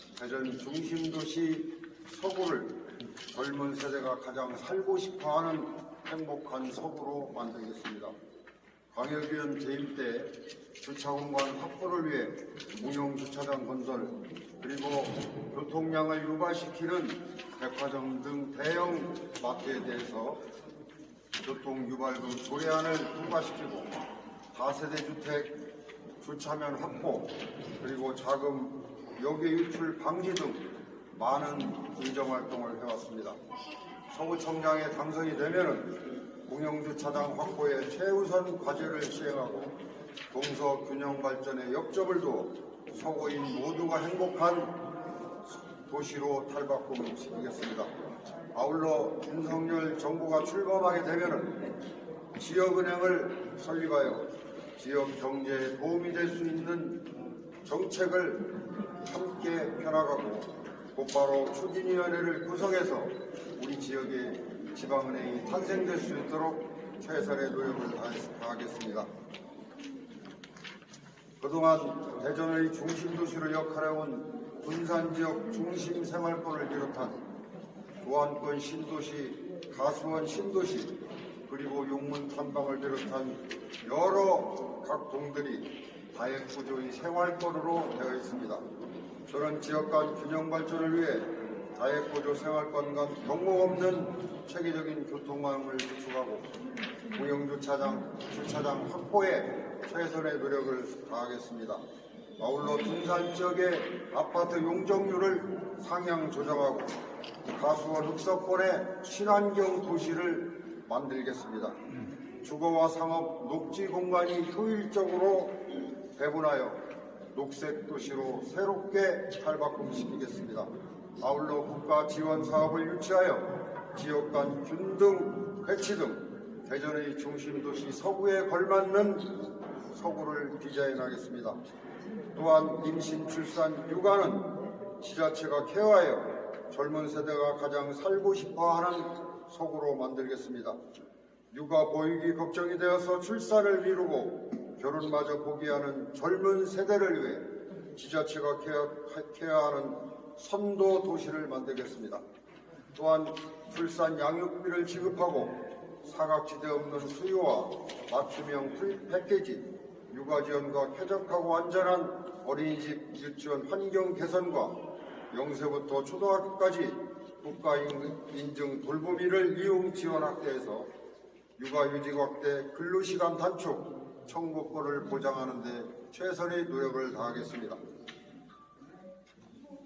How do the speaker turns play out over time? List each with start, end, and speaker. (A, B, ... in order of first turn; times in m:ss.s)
0:00.2-0:08.1 A
0:08.9-0:20.4 A
0:21.4-0:23.9 A
0:24.5-0:25.6 A
0:26.2-0:33.4 A
0:34.1-0:39.8 A
0:40.3-0:44.8 A
0:45.5-0:47.9 A
0:48.5-0:51.6 A
0:52.3-0:57.1 A
0:57.6-1:09.1 A
1:11.4-1:17.2 A
1:18.0-1:28.6 A
1:29.3-1:36.5 A
1:37.1-1:41.8 A
1:42.4-1:47.0 A
1:47.5-1:51.8 A
1:52.4-2:11.6 A
2:12.3-2:20.8 A
2:21.5-2:32.2 A
2:32.9-2:50.9 A
2:51.6-2:57.8 A